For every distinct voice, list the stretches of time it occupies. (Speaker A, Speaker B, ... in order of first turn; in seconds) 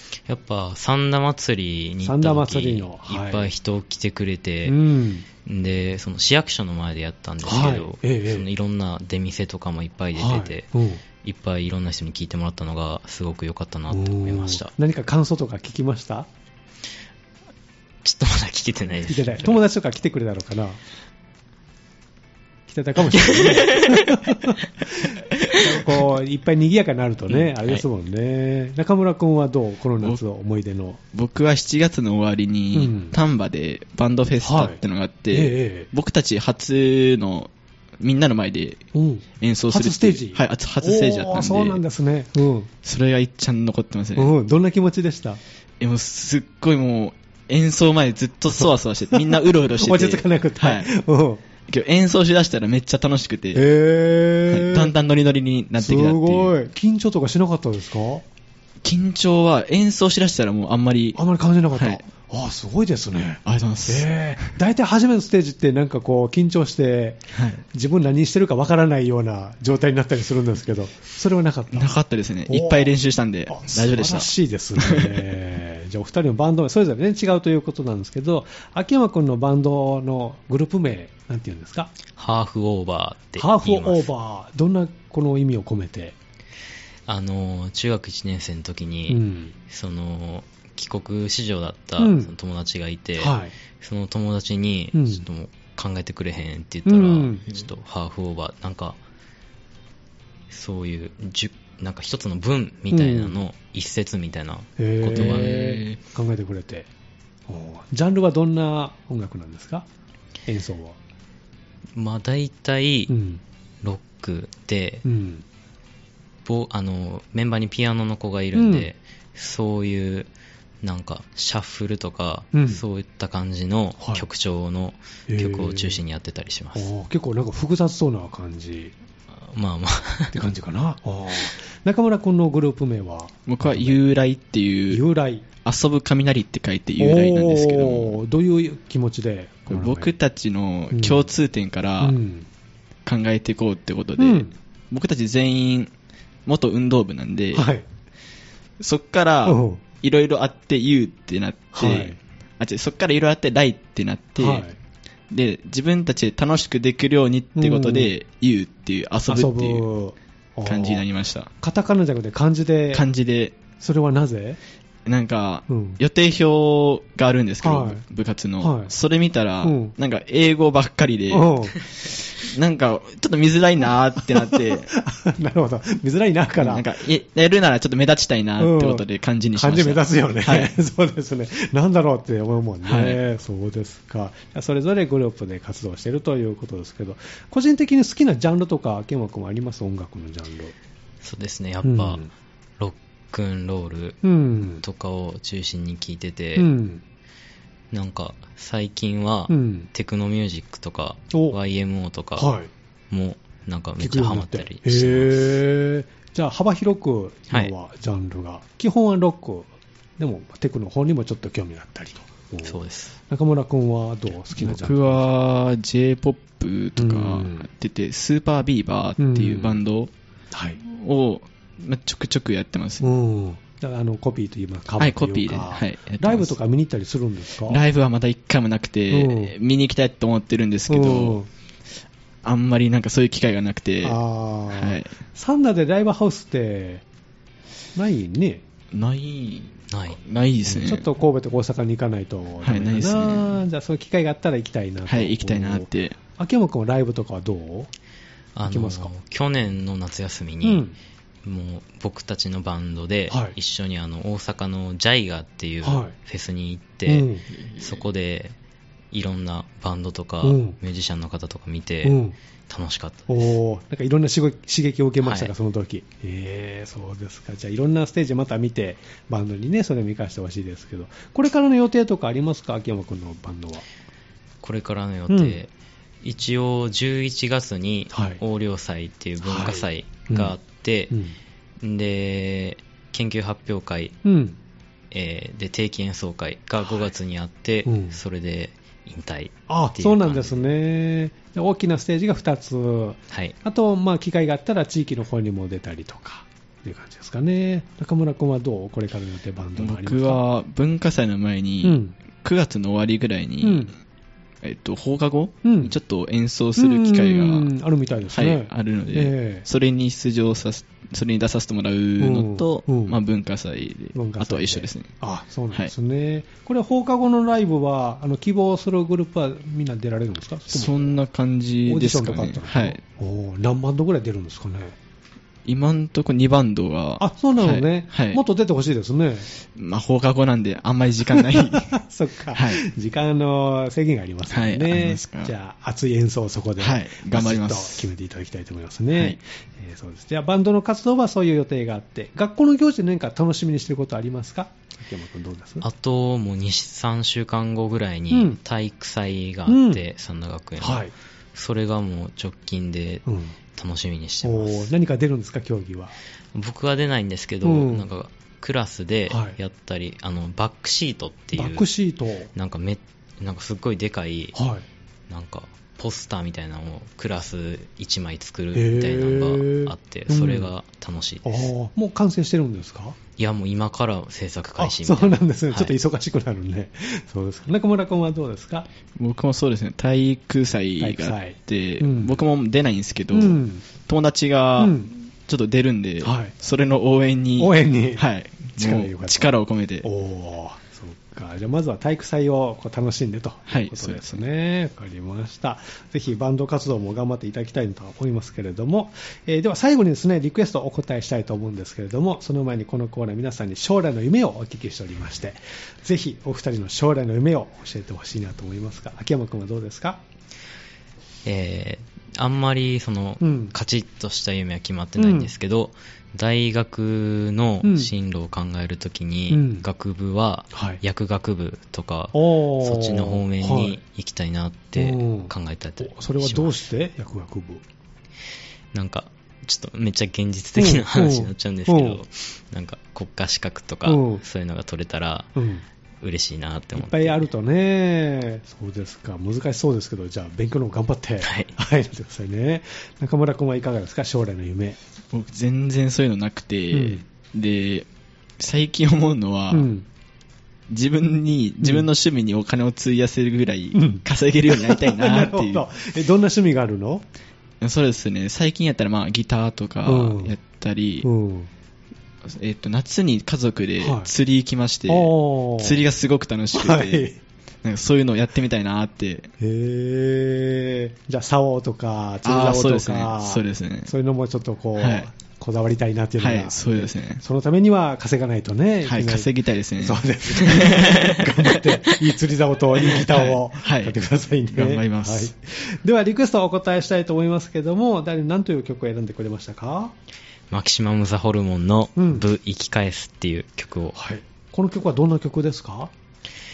Speaker A: 0.3-4.8, 5.5-10.7, 11.2-14.7, 18.1-19.6, 23.4-24.1, 27.4-27.8, 82.2-84.1, 87.1-99.0, 100.5-105.8, 112.0-113.1, 113.8-115.0, 116.5-120.3, 120.8-126.9, 129.4-130.4, 191.2-192.3, 192.8-194.2, 194.8-196.7, 197.9-202.6, 203.1-205.6, 212.6-213.2, 239.9-240.2, 248.6-250.9, 251.4-258.6, 259.1-262.2, 262.7-263.5, 265.2-265.5, 274.6-275.7, 276.2-281.2, 281.8-284.2, 285.1-290.7, 345.8-354.9, 356.5-361.9, 362.6-364.6, 365.3-371.7, 373.4-375.9, 411.4-426.8, 428.9-435.5, 436.2-437.4, 441.4-441.7, 490.7-494.2
Speaker B: 2.0-3.5, 4.7-5.3, 7.4-8.5, 10.2-11.0, 13.9-16.3, 19.0-20.8, 22.7-31.0, 32.7-33.1, 34.4-34.8, 35.3-35.9, 38.9-42.7, 44.2-45.4, 48.5-51.4, 53.5-54.9, 55.8-58.2, 61.1-72.0, 72.5-72.9, 73.5-81.9, 83.4-86.2, 89.1-89.5, 92.0-92.3, 93.2-93.5, 94.9-95.2, 96.9-97.4, 102.9-103.4, 104.8-106.9, 107.5-109.9, 110.5-111.0, 113.1-113.4, 115.0-115.4, 118.5-118.9, 122.5-122.8, 124.0-124.3, 125.3-126.0, 126.8-128.9, 130.3-134.0, 134.9-135.5, 137.0-140.1, 140.9-141.3, 142.0-142.5, 144.2-144.5, 147.5-147.9, 149.4-149.8, 151.7-152.2, 154.4-154.8, 157.6-158.1, 159.3-161.1, 161.6-163.0, 163.8-164.6, 165.7-166.0, 167.6-168.0, 168.6-168.9, 169.6-169.9, 171.3-171.7, 174.3-176.9, 178.6-190.7, 191.8-192.3, 194.2-194.8, 196.6-197.0, 199.5-199.9, 202.4-202.7, 204.0-212.8, 213.3-215.2, 217.0-217.7, 219.2-219.8, 220.5-220.8, 223.0-227.8, 229.1-229.5, 230.9-231.5, 234.0-237.0, 237.9-238.6, 240.7-247.9, 248.7-249.1, 250.6-250.9, 253.3-253.6, 255.8-256.1, 257.1-257.4, 260.4-260.8, 262.0-262.4, 263.3-273.8, 275.3-275.6, 278.1-278.4, 279.4-280.5, 281.1-281.4, 284.2-284.6, 287.9-288.2, 289.7-300.4, 301.8-302.1, 303.6-303.9, 305.6-305.9, 306.8-309.7, 312.2-313.2, 314.1-321.2, 321.9-325.0, 327.2-329.5, 331.3-345.9, 348.3-348.6, 349.7-350.0, 350.8-351.1, 353.3-353.6, 354.4-356.1, 357.6-358.1, 359.3-359.6, 361.6-362.5, 364.6-364.8, 368.7-370.7, 371.4-373.2, 374.8-378.9, 381.0-382.4, 383.3-383.8, 384.8-385.1, 386.2-386.6, 387.6-388.3, 388.8-410.2, 413.4-413.7, 415.2-415.5, 417.8-418.1, 419.5-419.9, 420.7-421.0, 422.3-424.0, 425.0-427.8, 430.8-432.2, 434.1-434.4, 435.6-435.8, 437.0-445.0, 446.9-447.2, 449.7-450.1, 453.9-457.2, 460.1-460.6, 461.2-461.7, 464.0-464.3, 465.1-466.0, 466.7-467.4, 469.6-490.1, 492.2-492.5, 494.1-496.1
Speaker C: 31.1-38.8, 39.4-41.8, 42.8-44.3, 45.8-50.9, 51.7-53.7, 54.5-56.5, 58.8-61.2, 61.7-62.0, 63.5-64.5, 67.3-67.6, 71.7-75.2, 105.2-106.0, 133.5-135.0, 135.6-138.2, 139.7-142.2, 143.1-145.9, 146.5-147.7, 148.8-154.7, 155.3-159.8, 160.7-161.5, 162.9-163.6, 165.1-174.9, 176.6-180.7, 182.9-183.2, 214.6-220.1, 220.8-223.1, 225.0-226.6, 227.7-231.4, 232.4-234.2, 234.7-235.1, 238.9-241.1, 242.6-243.5, 245.1-246.2, 257.7-258.0, 299.8-303.9, 304.6-307.7, 308.3-315.1, 320.7-323.0, 325.6-328.4, 329.8-331.9, 332.5-332.9, 334.5-335.5, 336.8-338.1, 379.1-390.1, 393.7-394.4, 445.3-448.1, 448.6-449.9, 450.9-455.8, 457.8-461.3, 462.5-467.3, 467.8-469.5, 472.4-474.1, 475.0-475.3, 476.4-477.4, 479.1-481.9, 483.0-484.1, 484.7-485.5